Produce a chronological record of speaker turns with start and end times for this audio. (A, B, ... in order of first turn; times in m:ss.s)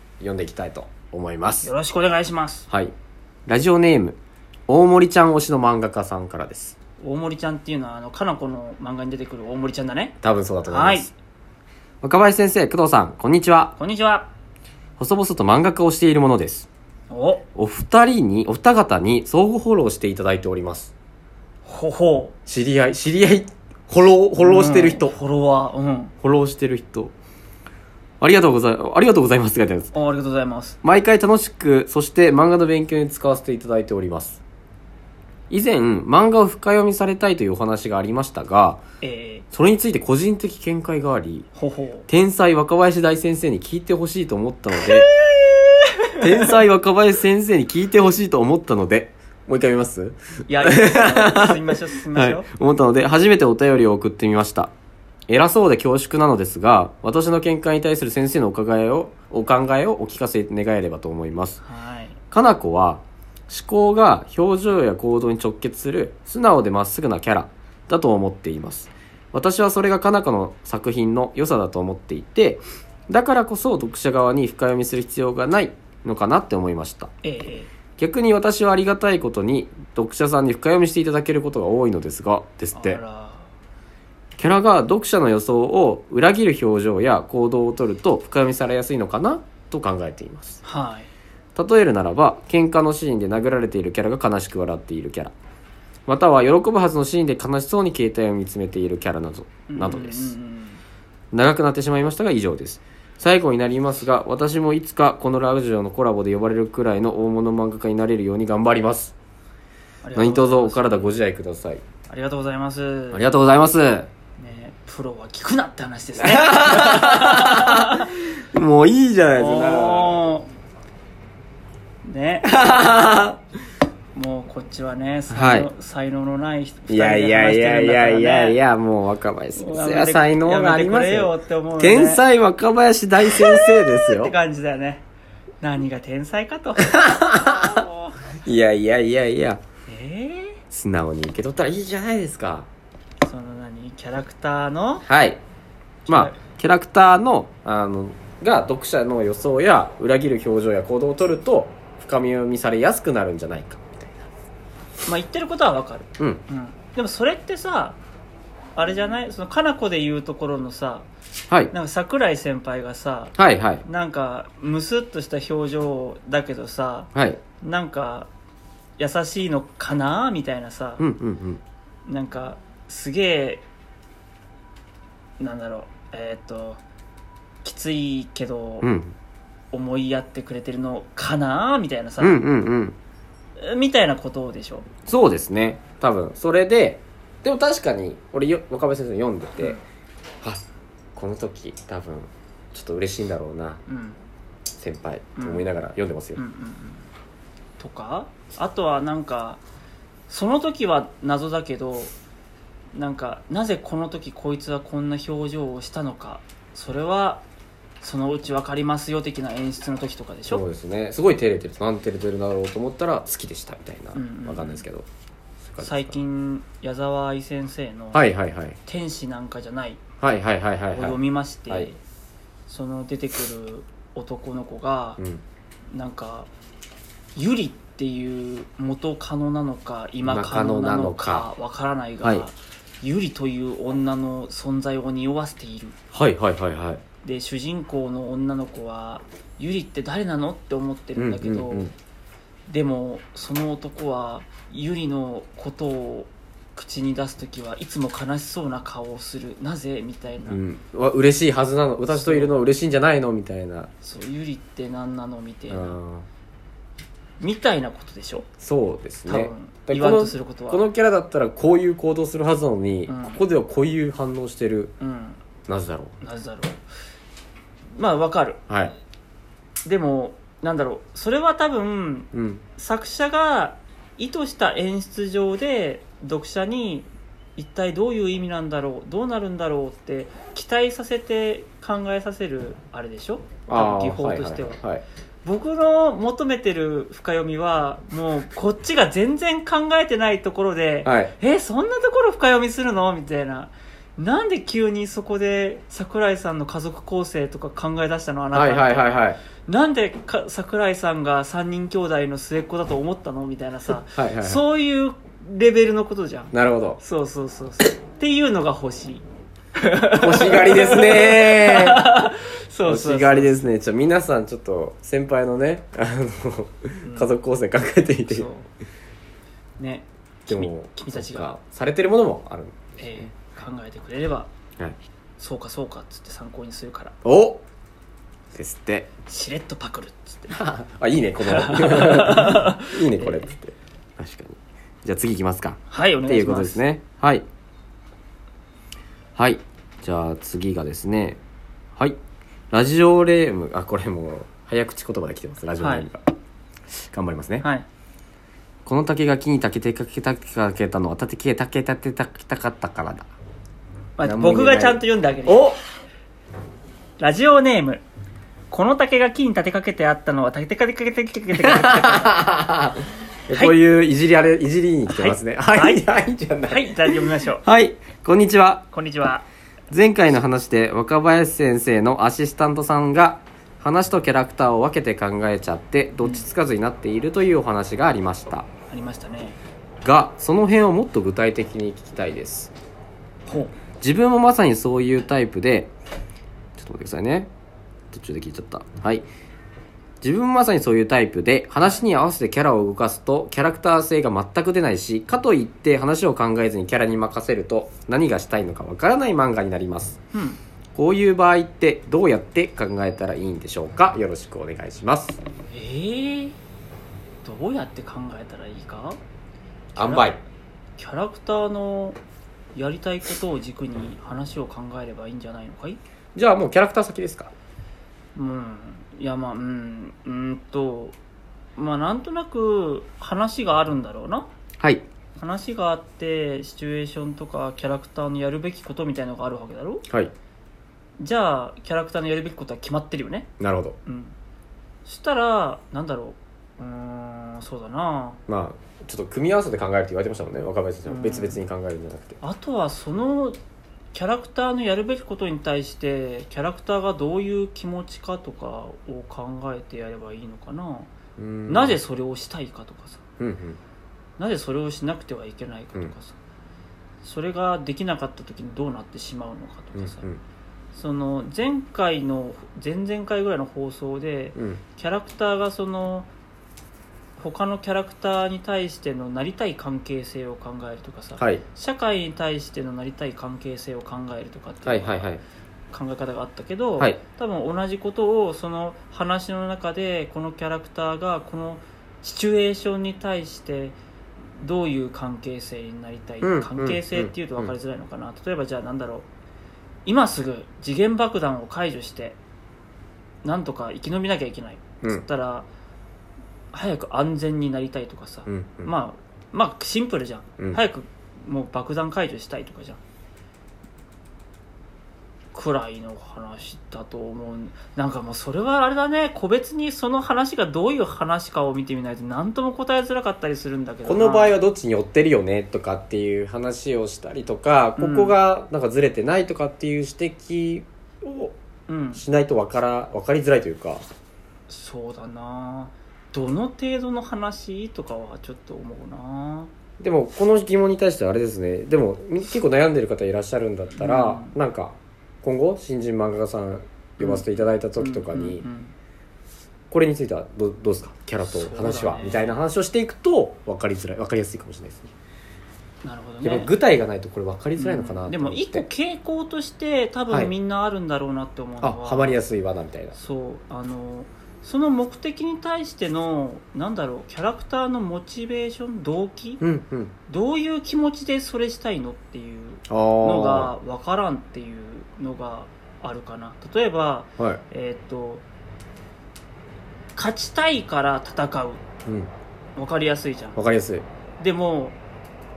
0:00.2-0:01.7 A
0:01.6-0:02.7 B
0:03.5-0:06.8 A
0:07.0-0:10.2 B
0:10.2-0:11.1 A
0:10.7-0:11.1 B
0:12.0-0:13.7 A
0:13.8-0:14.3 B
0:15.0-0:16.7 A
0:17.1-0:17.4 B
0:17.5-0:20.9 A
0:21.6-0:22.3 B
0:22.5-0:25.1 A
0:24.4-0:26.1 B
0:26.2-0:27.1 A
0:28.2-0:29.9 A
0:29.9-0:30.8 B
0:30.8-0:34.4 A
0:35.5-0:38.8 A
0:39.0-0:39.4 B
0:39.5-0:41.5 A
0:41.6-0:42.1 B
0:42.1-0:45.1 A
0:44.8-0:46.5 B
0:46.2-0:51.6 A
0:50.5-0:52.5 B
0:52.1-0:54.7 A
0:55.3-1:01.6 A
1:01.6-1:02.2 B
1:02.3-1:17.1 A
1:17.2-1:17.7 B
1:18.0-1:23.0 A
1:22.8-1:23.5 B
1:24.4-1:30.6 A
1:30.6-1:31.1 B
1:31.6-1:35.3 A
1:36.0-1:40.3 A
1:39.7-1:40.8 B
1:41.3-1:49.1 A
1:50.0-1:51.1 B
1:50.1-1:51.8 A
1:52.1-1:53.3 B
1:53.1-1:54.1 A
1:54.4-1:58.1 B
1:56.2-2:00.2 A
1:59.3-2:00.5 B
2:02.0-2:02.6 B
2:02.4-2:03.4 A
2:04.1-2:08.6 B
2:05.3-2:05.7 A
2:06.9-2:14.3 A
2:09.5-2:12.2 B
2:13.2-2:15.0 B
2:15.6-2:18.2 B
2:16.8-2:17.8 A
2:18.4-2:19.6 A
2:19.9-2:20.6 B
2:20.7-2:22.7 A
2:23.2-2:25.0 B
2:25.0-2:25.4 A
2:26.0-2:26.4 B
2:26.1-2:34.3 A
2:35.0-2:38.0 B
2:38.8-2:41.1 B
2:41.7-2:48.3 B
2:43.4-2:43.8 A
2:47.1-2:47.4 A
2:49.0-2:51.0 B
2:51.0-2:51.6 A
2:52.1-2:53.6 B
2:55.4-2:56.8 B
2:57.6-2:58.9 B
2:58.8-2:59.2 A
2:59.7-3:02.4 B
3:02.2-3:03.0 A
3:03.6-3:04.9 B
3:05.0-3:09.8 A
3:11.1-3:13.8 A
3:13.9-3:14.2 B
3:14.8-3:16.4 A
3:15.4-3:15.7 B
3:16.4-3:17.1 B
3:17.8-3:19.6 B
3:20.3-3:22.1 B
3:22.9-3:27.4 B
3:28.0-3:30.6 B
3:30.5-3:35.0 A
3:34.1-3:34.8 B
3:35.6-3:36.2 A
3:35.8-3:38.2 B
3:38.1-3:38.8 A
3:38.8-3:40.0 B
3:40.2-3:41.2 A
3:40.9-3:42.0 B
3:42.7-3:45.2 B
3:45.2-3:45.4 A
3:45.9-3:46.5 B
3:47.4-3:56.0 B
3:50.2-3:51.5 A
3:56.1-3:57.0 A
3:57.2-4:01.9 B
4:01.2-4:01.9 A
4:02.7-4:10.6 B
4:10.5-4:13.9 A
4:12.1-4:12.5 B
4:14.0-4:16.0 B
4:15.7-4:16.3 A
4:17.4-4:18.5 B
4:18.6-4:24.9 A
4:19.3-4:20.8 B
4:23.1-4:23.4 B
4:25.0-4:25.4 B
4:25.7-4:26.1 A
4:26.2-4:26.8 B
4:28.0-4:28.6 B
4:28.7-4:28.9 A
4:29.8-4:44.8 B
4:32.3-4:32.6 A
4:43.7-4:45.0 A
4:45.4-5:09.2 B
4:51.0-4:51.3 A
4:58.5-4:59.4 A
5:04.1-5:04.6 A
5:06.5-5:07.0 A
5:09.8-5:13.5 B
5:10.2-5:12.0 A
5:12.8-5:18.5 A
5:17.0-5:17.3 B
5:18.3-5:18.7 B
5:19.8-5:21.5 B
5:20.5-5:23.3 A
5:23.0-5:24.5 B
5:25.4-5:27.1 B
5:27.2-5:27.6 A
5:28.5-5:29.1 A
5:29.2-5:30.6 B
5:30.5-5:37.4 A
5:31.4-5:33.4 B
5:35.9-5:36.8 B
5:39.4-5:41.4 A
5:42.7-5:46.2 A
5:45.8-5:46.1 B
5:47.0-5:47.6 A
5:48.8-5:53.3 A
5:54.2-5:55.7 B
5:54.2-5:55.8 A
5:57.2-5:58.0 B
5:58.7-6:02.4 B
6:01.6-6:08.8 A
6:03.5-6:03.8 B
6:05.1-6:06.0 B
6:06.7-6:07.6 B
6:08.9-6:09.4 B
6:09.9-6:18.7 A
6:18.9-6:19.6 B
6:20.0-6:22.7 A
6:23.5-6:23.7 B
6:24.0-6:25.9 A
6:26.8-6:27.5 A
6:28.1-6:29.3 A
6:30.2-6:40.2 A
6:40.3-6:40.6 B
6:40.9-6:45.4 A
6:45.7-6:46.6 B
6:47.4-6:49.2 B
6:50.0-6:50.4 A
6:50.0-6:50.3 B
6:51.0-6:52.2 B
6:52.7-6:56.0 B
6:56.4-6:57.5 A
6:58.4-7:01.2 B
7:01.8-7:04.5 B
7:04.8-7:05.0 A
7:05.4-7:10.0 B
7:11.2-7:13.5 B
7:13.6-7:14.0 A
7:14.0-7:14.3 B
7:15.0-7:18.4 B
7:18.5-7:22.4 A
7:21.0-7:21.6 B
7:22.4-7:23.6 B
7:24.1-7:31.1 B
7:31.4-7:32.0 A
7:31.7-7:33.2 B
7:33.4-7:33.8 A
7:34.4-7:36.3 B
7:37.2-7:40.2 B
7:39.9-7:40.4 A
7:40.9-7:46.3 B
7:44.6-7:44.8 A
7:47.4-7:55.3 B
7:51.4-7:51.6 A
7:54.8-7:55.4 A
7:55.9-8:03.9 B
8:04.6-8:09.2 B
8:06.4-8:07.7 A
8:10.0-8:12.4 B
8:13.4-8:15.7 B
8:16.7-8:23.0 B
8:18.5-8:18.9 A
8:25.5-8:34.6 B
8:34.0-8:41.5 A
8:38.0-8:38.4 B
8:41.9-8:42.2 B
8:42.1-8:44.0 A
8:44.7-8:49.7 B
8:50.0-8:58.6 A
8:54.0-8:54.5 B
8:57.2-8:58.9 B
8:59.9-9:05.1 A
9:01.4-9:02.6 B
9:06.0-9:06.7 B
9:06.4-9:08.8 A
9:07.8-9:12.4 B
9:11.8-9:13.1 A
9:13.1-9:19.6 B
9:19.6-9:20.1 A
9:20.3-9:28.4 B
9:22.9-9:23.7 A
9:30.2-9:31.8 B
9:32.8-9:33.6 B
9:33.6-9:34.0 A
9:34.4-9:35.0 B